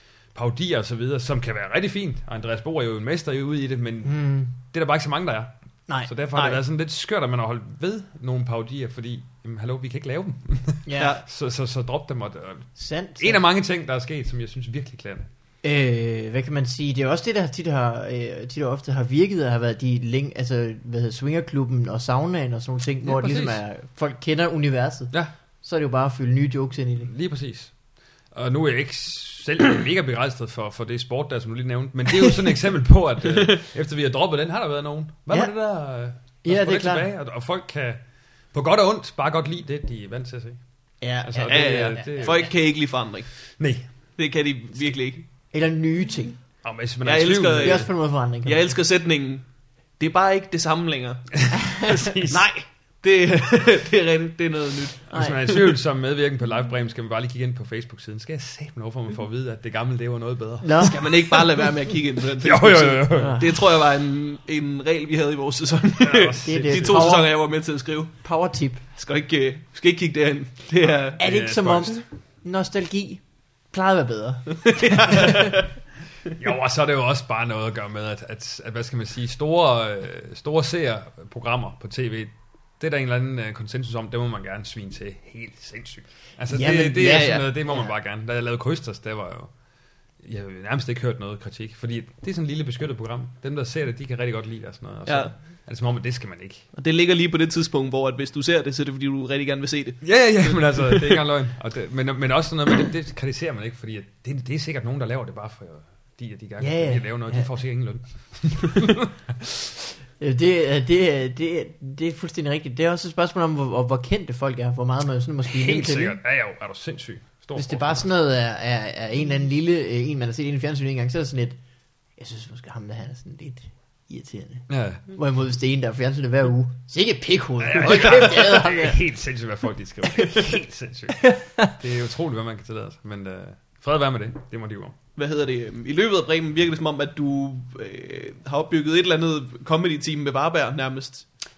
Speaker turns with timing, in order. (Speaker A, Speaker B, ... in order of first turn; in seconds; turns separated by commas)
Speaker A: 0.3-5.5, Speaker B: 4.0-4.5, Speaker B: 5.9-6.6, Speaker A: 6.0-12.7, Speaker B: 10.8-11.2, Speaker C: 11.0-11.2, Speaker B: 12.8-13.4, Speaker A: 13.2-15.3, Speaker B: 15.6-27.1, Speaker A: 23.0-23.6, Speaker A: 27.1-27.7, Speaker A: 28.3-38.0, Speaker B: 36.4-37.1, Speaker A: 38.5-40.6, Speaker B: 41.0-42.4, Speaker A: 41.2-42.5, Speaker C: 41.4-43.3, Speaker A: 43.6-43.9, Speaker C: 44.2-45.2, Speaker B: 45.5-46.4, Speaker A: 46.6-47.9, Speaker C: 47.0-47.9, Speaker B: 47.6-48.6, Speaker C: 48.4-49.4, Speaker C: 50.0-51.4, Speaker A: 51.4-52.5, Speaker C: 52.3-55.1, Speaker B: 55.1-55.5, Speaker A: 55.1-61.1, Speaker B: 60.6-61.0, Speaker C: 60.8-68.1, Speaker A: 62.4-63.5, Speaker B: 63.1-63.5, Speaker A: 66.0-67.1, Speaker B: 66.4-67.3, Speaker B: 68.2-68.8, Speaker C: 68.9-71.2, Speaker A: 70.8-72.0, Speaker B: 71.2-75.6, Speaker C: 74.6-75.6, Speaker A: 76.4-89.5, Speaker B: 86.5-87.9, Speaker C: 87.0-87.5, Speaker A: 90.2-96.6, Speaker C: 95.1-95.3, Speaker C: 96.7-101.2, Speaker A: 100.0-109.7, Speaker B: 106.6-107.5, Speaker B: 110.2-116.2, Speaker A: 115.5-118.1, Speaker B: 117.5-121.6, Speaker B: 122.2-129.0, Speaker A: 124.7-125.0, Speaker A: 127.6-134.9, Speaker B: 131.2-131.7, Speaker C: 135.2-141.2